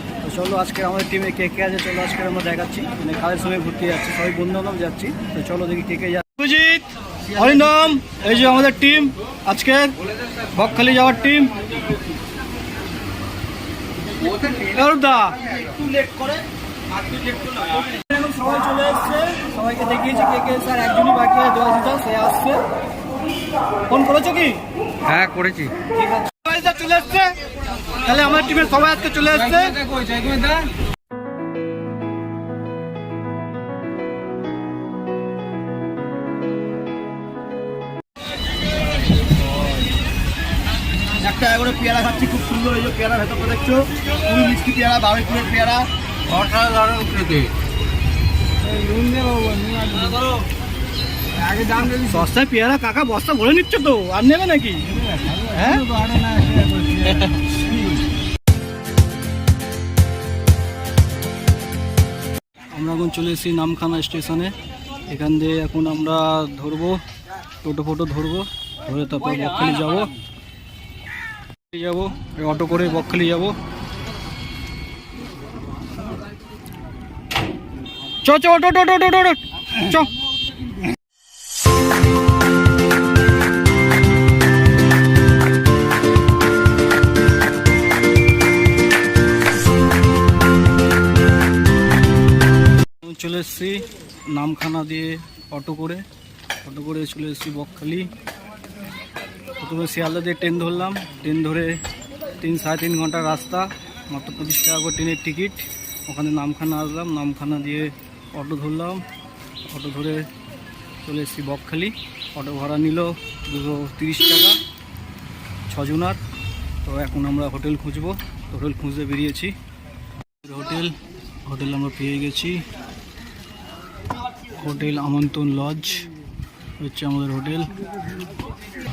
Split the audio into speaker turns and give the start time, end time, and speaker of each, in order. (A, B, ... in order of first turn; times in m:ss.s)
0:00.2-0:11.9 A
0:14.4-0:15.5 A
0:15.5-0:16.4 B
0:17.0-0:22.6 A
0:23.9-0:27.4 A
0:25.2-0:25.7 B
0:27.9-0:30.0 A
0:29.9-0:30.7 B
0:41.1-0:47.5 B
0:48.6-0:50.4 B
0:51.3-0:52.1 B
0:51.9-0:55.9 A
0:55.2-0:58.0 B
1:02.7-1:04.6 A
1:05.1-1:07.0 A
1:07.6-1:10.1 A
1:11.7-1:13.6 A
1:18.2-1:20.1 A
1:33.0-1:36.0 A
1:36.6-1:38.1 A
1:39.6-1:41.8 A
1:42.4-1:49.0 A
1:49.7-1:50.3 A
1:51.0-1:54.6 A
1:55.7-1:56.2 A
1:56.8-1:59.5 A
2:00.4-2:02.6 A
2:04.5-2:06.1 A
2:06.8-2:07.7 A